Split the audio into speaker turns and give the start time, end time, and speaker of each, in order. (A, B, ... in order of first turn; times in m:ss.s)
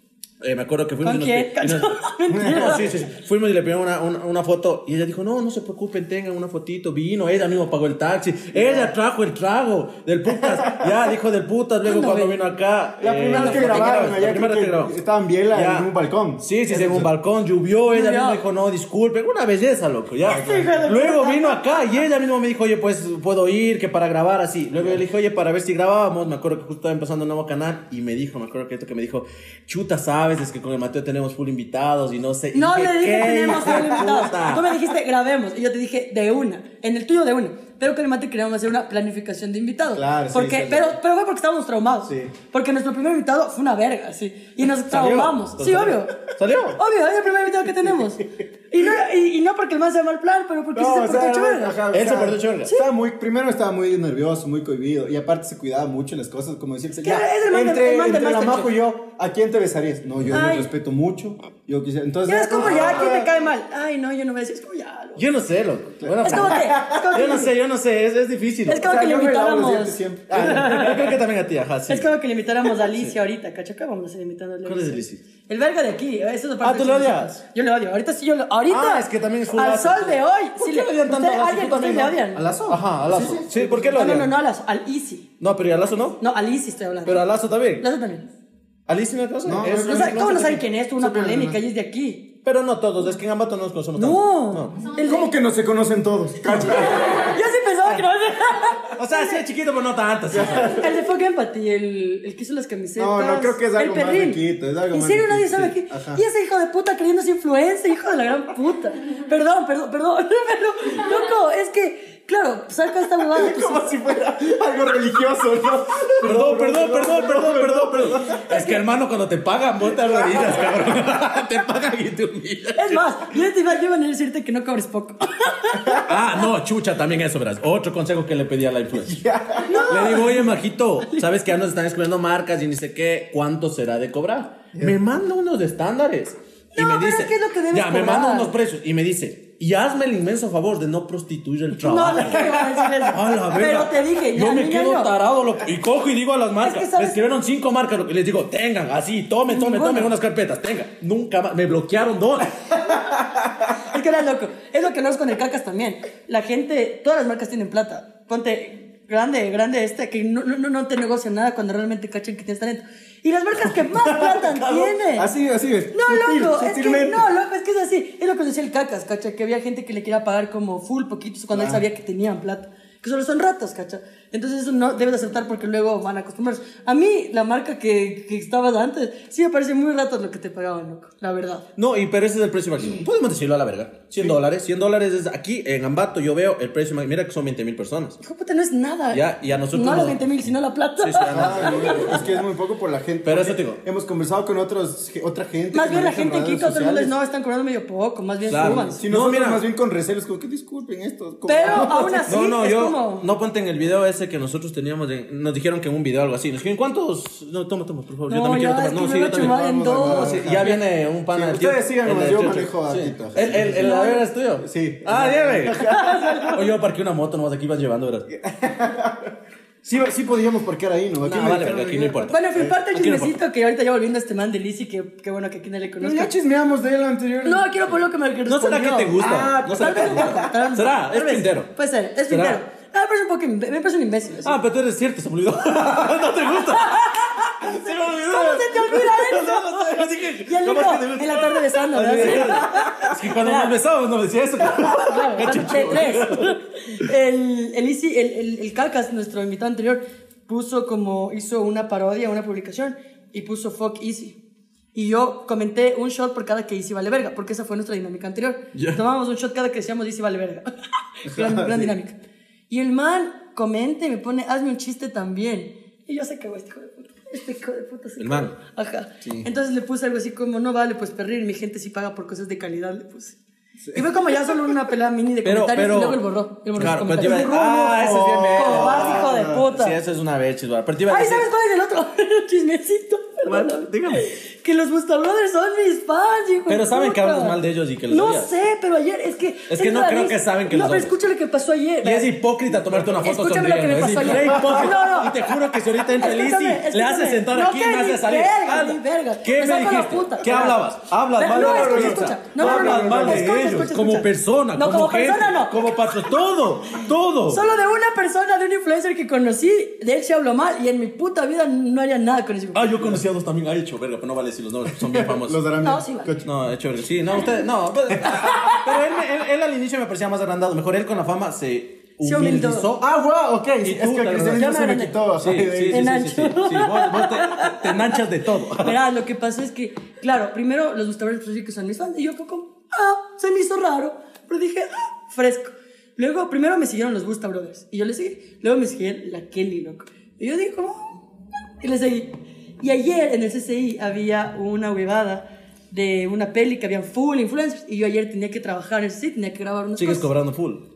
0:00.4-0:15.0 A
0:01.0-0:02.9 B
0:08.5-0:08.9 C
0:11.8-0:12.4 B
0:13.0-0:17.1 C
0:13.4-0:13.9 B
0:15.5-0:34.8 A
0:17.9-0:18.4 B
0:20.3-0:22.0 B
0:32.5-0:46.2 B
0:39.9-0:41.0 C
0:42.1-0:42.3 C
0:44.8-0:46.8 A
0:46.7-0:51.8 B
0:50.7-1:03.3 C
0:51.9-0:52.7 A
0:57.0-0:58.8 B
1:00.3-1:00.7 B
1:02.3-1:05.2 B
1:02.6-1:03.1 A
1:05.2-1:08.9 A
1:06.0-1:07.2 C
1:06.2-1:07.5 B
1:08.7-1:11.1 B
1:08.8-1:10.7 C
1:10.3-1:12.1 A
1:11.9-1:22.4 B
1:12.8-1:13.1 A
1:14.6-1:15.2 A
1:16.6-1:17.4 A
1:18.7-1:24.3 A
1:22.4-1:24.0 C
1:23.7-1:25.3 B
1:25.4-1:26.2 A
1:26.2-1:28.3 B
1:27.0-1:27.8 A
1:28.9-1:30.4 A
1:29.4-1:31.6 C
1:29.9-1:32.3 B
1:32.4-1:34.8 A
1:34.0-1:35.3 B
1:35.0-1:37.1 C
1:36.5-1:39.4 B
1:39.0-1:40.8 A
1:40.3-1:40.8 C
1:40.7-1:53.9 B
1:43.0-1:46.2 C
1:53.3-1:58.4 C
1:56.2-2:03.2 A
1:58.5-1:58.8 B
2:00.0-2:00.6 C
2:02.8-2:06.1 B
2:05.9-2:09.2 A
2:09.0-2:09.9 C
2:09.6-2:10.5 B
2:09.9-2:33.0 A
2:16.8-2:18.5 B
2:21.8-2:25.1 B
2:26.6-2:27.2 B
2:29.5-2:30.1 B
2:33.8-2:45.3 B
2:44.1-2:47.3 C
2:45.9-3:01.6 B
2:51.5-2:51.8 C
3:01.8-3:08.2 A
3:08.2-3:12.2 B
3:09.1-3:10.4 A
3:11.0-3:12.4 A
3:11.3-3:17.1 C
3:13.2-3:13.8 A
3:15.7-3:19.0 B
3:18.5-3:22.3 C
3:18.5-3:19.6 A
3:21.5-3:23.3 B
3:22.3-3:36.0 A
3:28.3-3:30.7 B
3:29.3-3:30.8 C
3:31.3-3:34.0 C
3:33.5-3:34.2 B
3:34.6-3:36.2 C
3:35.8-3:36.6 B
3:36.5-3:38.3 A
3:38.3-3:39.3 C
3:39.8-3:42.6 C
3:41.2-3:43.4 A
3:42.3-3:46.3 B
3:46.0-3:47.8 C
3:47.4-3:49.2 B
3:48.5-3:51.7 A
3:49.2-3:50.5 C
3:49.7-3:54.6 B
3:52.3-3:52.6 A
3:54.4-4:07.1 A
3:56.8-4:03.7 B
4:04.6-4:14.4 B
4:14.9-4:22.2 B
4:21.3-4:22.0 C
4:22.7-4:33.4 B
4:28.2-4:28.5 A
4:33.8-4:34.7 C
4:33.9-4:40.0 B
4:35.4-4:36.2 A
4:36.8-4:41.5 A
4:37.2-4:39.6 C
4:41.1-4:47.6 B
4:43.5-4:44.3 A
4:46.7-4:48.5 A
4:48.1-4:55.5 B
4:49.7-4:51.2 A
4:52.0-5:07.6 A
4:54.3-4:54.9 C
4:56.2-5:05.8 B
5:01.5-5:03.5 C
5:07.5-5:13.0 B
5:12.7-5:15.6 A
5:15.0-5:16.5 C
5:15.8-5:16.3 B
5:16.4-5:23.2 A
5:18.3-5:18.8 B
5:22.2-5:22.9 B
5:23.0-5:26.2 C
5:23.8-5:24.7 A
5:24.5-5:25.2 B
5:25.4-5:29.0 A
5:25.9-5:41.2 B
5:41.8-5:50.3 B
5:50.0-5:50.8 A